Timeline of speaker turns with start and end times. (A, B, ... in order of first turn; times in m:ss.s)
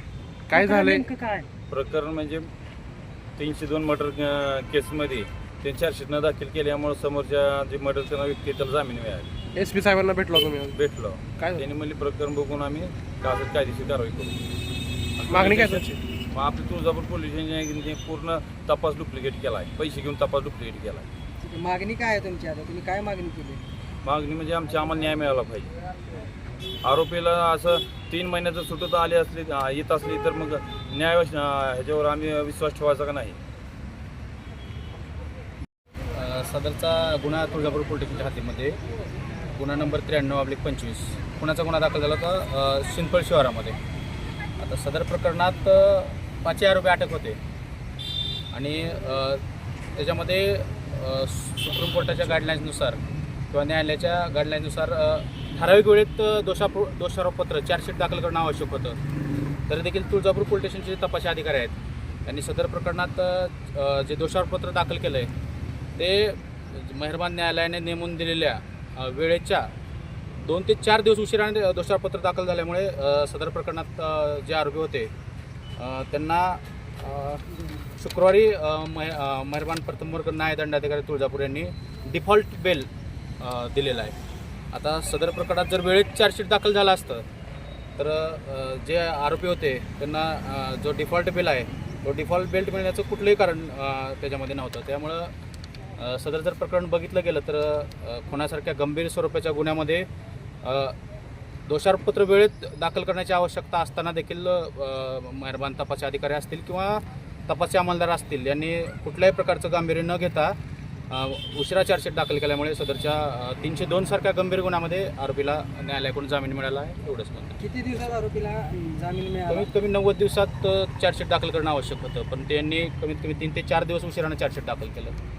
0:00.5-0:01.1 A
0:00.6-0:01.4 B
0:01.7-0:02.5 C
0:03.4-0:09.3 C
0:09.6-0:10.8 A
0:10.7-0:14.4 C
0:15.2-0:21.1 C
0:15.3-0:16.0 A
0:21.4-0:23.6 B
0:24.0-0:25.7 C
0:26.8-0:33.4 C
0:36.1-0:38.8 D
0:39.6-0:43.8 D
0:44.6-0:47.4 D
0:48.5-0:49.4 D
0:50.0-0:53.0 D
0:53.5-0:59.0 D
0:59.7-1:01.7 D
1:02.3-1:05.3 D
1:06.0-1:09.7 D
1:10.4-1:15.1 D
1:15.8-1:17.4 D
1:18.0-1:22.9 D
1:23.4-1:24.2 D
1:24.7-1:27.2 D
1:28.0-1:35.3 D
1:36.0-1:40.1 D
1:40.6-1:41.0 D
1:41.7-1:50.5 D
1:51.1-1:57.6 D
1:57.6-1:59.7 B
1:59.5-2:05.2 D